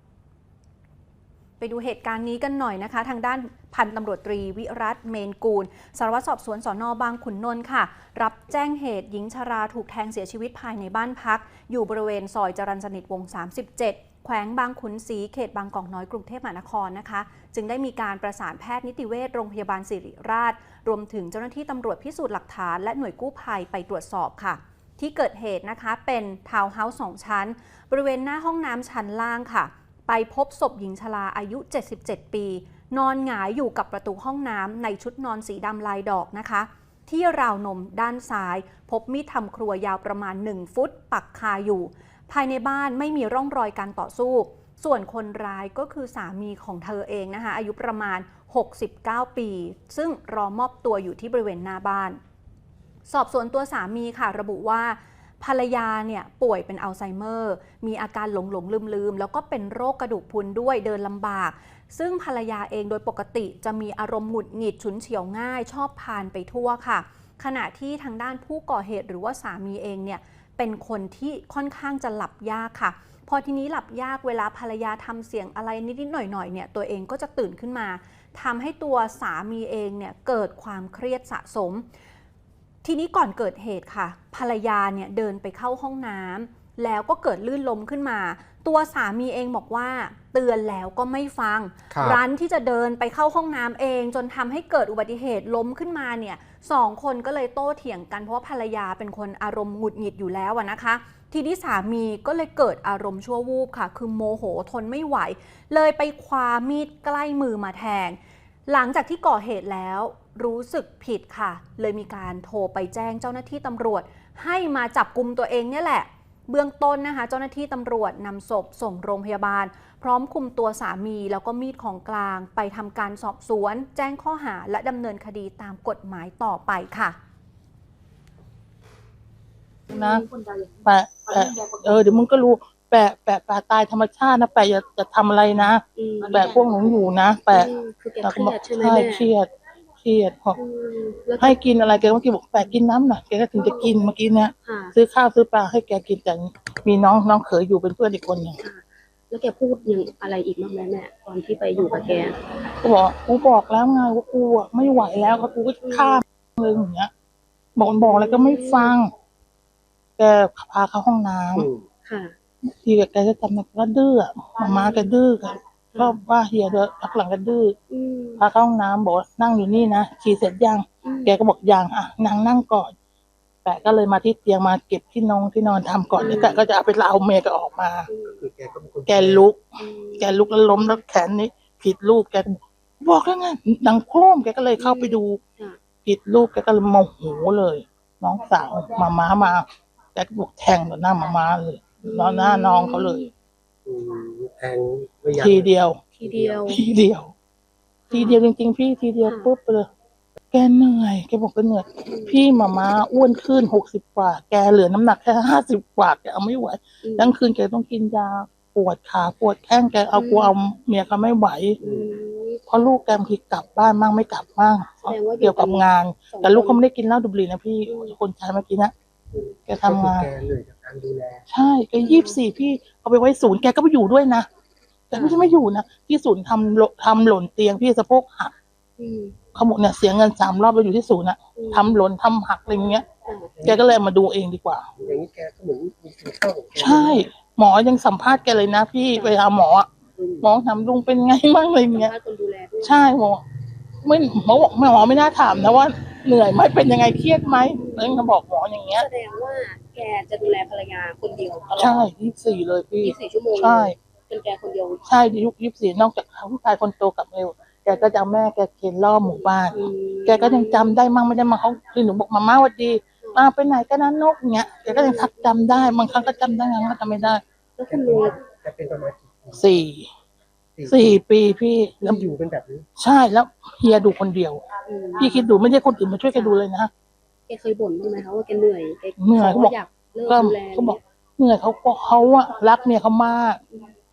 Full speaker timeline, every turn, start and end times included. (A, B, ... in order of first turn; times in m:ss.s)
0:01.6-0:52.2 A
0:53.1-1:21.8 A
1:22.8-2:07.2 A
2:09.9-2:10.3 B
2:09.9-2:10.3 C
2:10.8-2:19.5 B
2:16.0-2:16.8 C
2:17.5-2:19.3 C
2:20.0-2:20.6 B
2:20.6-2:21.6 C
2:21.4-2:28.6 B
2:23.6-2:23.9 C
2:24.6-2:24.9 C
2:28.6-2:32.4 C
2:32.8-2:37.1 B
2:35.8-2:36.2 C
2:37.8-2:39.1 B
2:38.0-2:39.0 C
2:40.2-2:41.7 B
2:41.5-2:41.8 D
2:42.0-2:42.4 C
2:42.6-2:47.8 B
2:44.6-2:45.1 C
2:45.9-2:46.2 C
2:47.9-2:48.4 C
2:48.4-2:52.9 B
2:51.0-2:51.3 C
2:53.6-2:58.1 B
2:56.2-2:56.6 C
2:58.1-2:58.4 C
2:58.4-2:59.4 D
2:59.1-3:05.4 B
2:59.8-3:01.0 C
3:04.8-3:05.8 C
3:06.0-3:13.2 B
3:12.0-3:13.3 C
3:13.8-3:15.7 D
3:15.3-3:16.0 B
3:16.1-3:16.8 C
3:16.2-3:16.7 D
3:16.7-3:17.3 B
3:18.1-3:18.4 C
3:18.1-3:19.9 B
3:19.2-3:19.5 C
3:20.5-3:31.8 B
3:22.1-3:22.4 C
3:27.0-3:27.3 C
3:30.1-3:30.5 C
3:31.8-3:32.6 C
3:31.8-3:32.1 D
3:32.7-3:38.9 B
3:35.0-3:36.8 C
3:37.9-3:38.1 C
3:39.3-3:39.6 C
3:39.7-3:40.3 B
3:39.8-3:41.4 D
3:41.5-3:44.4 B
3:42.0-3:42.4 C
3:45.1-3:48.5 B
3:45.1-3:45.6 C
3:49.0-3:49.4 C
3:49.5-3:53.0 B
3:51.6-3:52.0 C
3:53.2-3:53.6 C
3:53.6-3:53.8 D
3:53.6-3:54.9 B
3:55.0-3:57.3 D
3:56.7-3:59.9 B
4:00.2-4:00.4 D
4:00.4-4:02.1 B
4:01.9-4:03.1 C
4:02.8-4:03.4 B
4:04.0-4:09.0 B
4:07.5-4:08.3 C
4:08.9-4:12.1 C
4:11.7-4:14.0 B
4:13.0-4:15.0 C
4:15.0-4:27.4 B
4:19.6-4:21.0 C
4:23.2-4:23.5 C
4:24.9-4:25.6 C
4:27.8-4:28.4 C
4:27.9-4:29.6 D
4:29.5-4:30.1 B
4:30.7-4:31.2 D
4:30.9-4:32.3 B
4:32.0-4:32.9 D
4:33.0-4:34.6 B
4:34.9-4:35.5 C
4:35.2-4:36.9 B
4:37.5-4:41.0 C
4:39.2-4:39.8 B
4:40.3-4:43.6 B